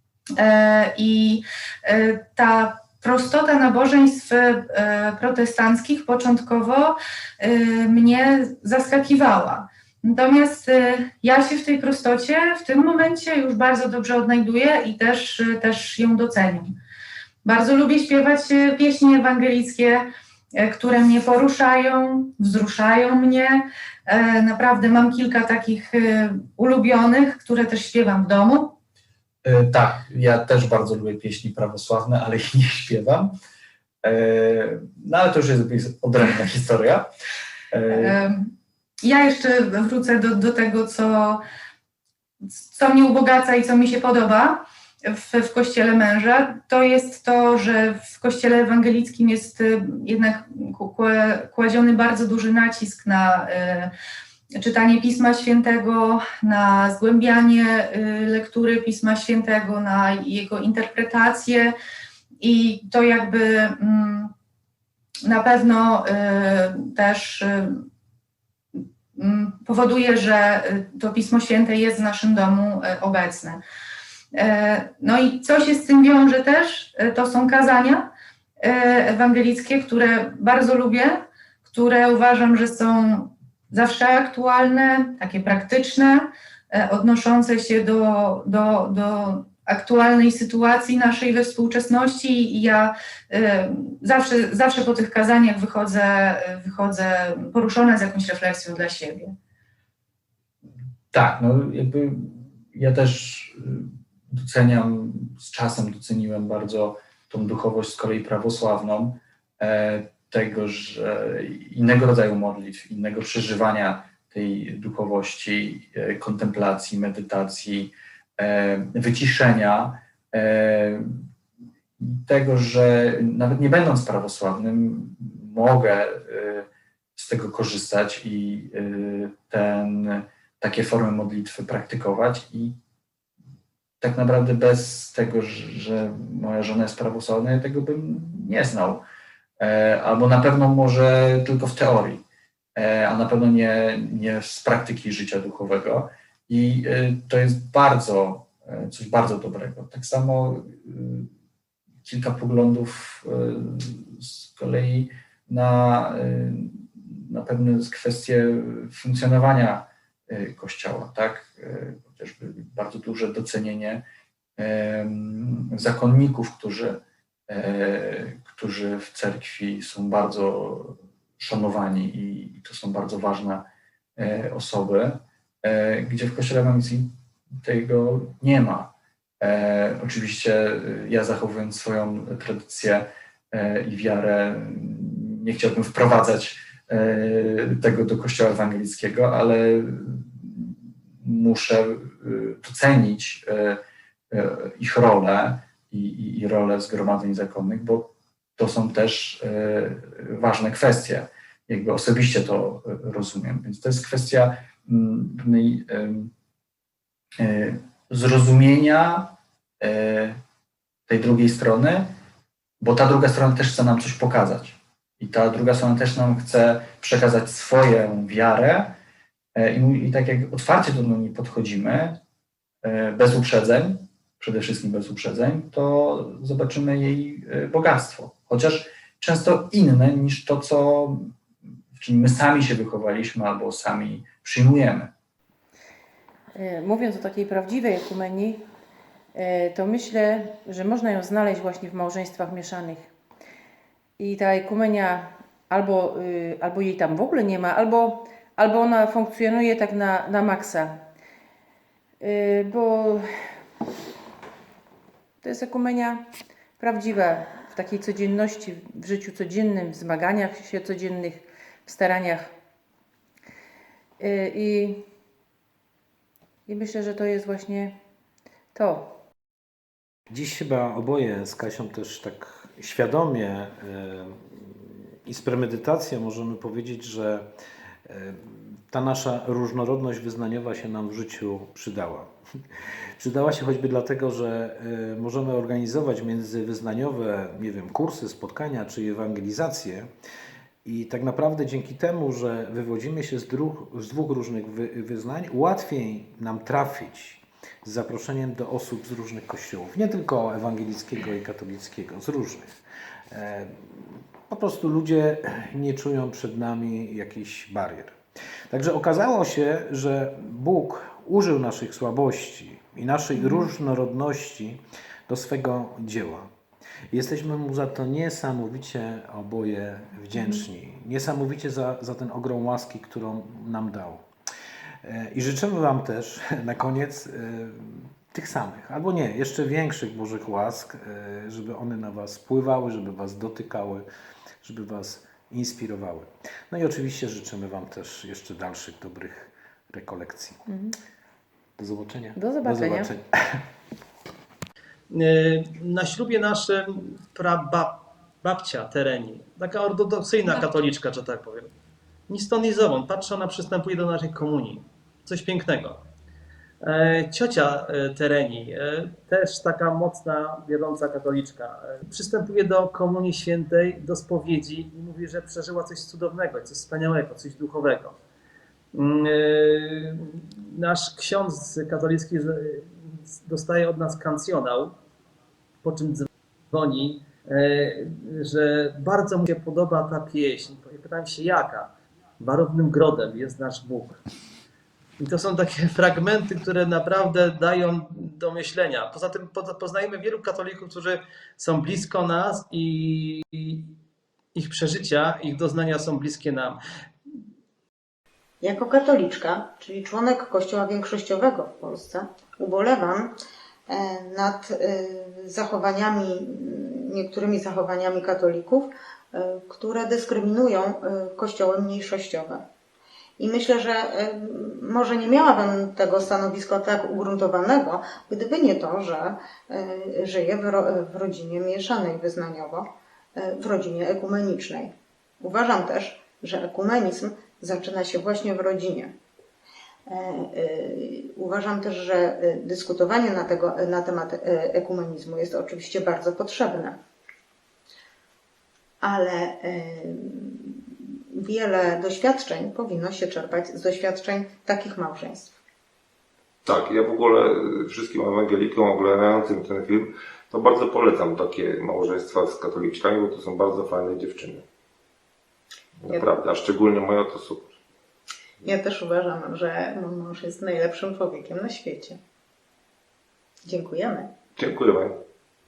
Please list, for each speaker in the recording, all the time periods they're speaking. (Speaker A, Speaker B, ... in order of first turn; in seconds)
Speaker A: 0.4-16.7, 17.4-20.1, 20.6-28.7, 37.9-38.5, 39.0-41.4, 42.6-53.9, 54.5-61.7, 62.4-64.3, 65.2-67.8, 68.8-73.6, 74.3-78.1, 78.6-99.3
Speaker B: 29.4-33.3, 34.0-37.1, 37.7-38.2, 101.1-121.2, 122.0-132.8, 134.0-139.0, 139.6-142.2, 142.8-151.3, 152.1-164.0, 164.6-193.8, 194.3-206.3, 207.4-210.4, 211.1-212.2, 212.8-219.0, 219.6-222.2, 222.8-231.3, 232.0-235.1
Speaker C: 236.6-238.7, 239.3-243.1, 244.2-250.9, 252.2-253.3, 255.4-256.2, 256.8-262.5, 264.2-265.0, 266.7-268.0, 268.8-269.2, 313.4-313.7, 320.4-320.6, 340.7-340.9, 342.4-343.1, 350.5-350.7
Speaker D: 270.3-277.5, 278.1-282.3, 283.2-290.1, 290.9-302.8, 303.3-308.2, 308.7-316.5, 317.1-324.2, 325.0-334.1, 334.6-340.6, 341.8-343.6
Speaker E: 345.1-351.7, 352.3-356.0, 356.8-368.2, 368.9-375.0, 375.8-384.2, 385.2-394.0, 394.5-396.8
Speaker F: 398.6-403.4, 403.9-412.7, 413.4-429.1, 430.1-437.0, 439.0-445.5, 456.1-456.4, 458.6-462.2, 463.6-464.3
Speaker G: 446.7-454.6, 456.0-457.8, 464.6-465.2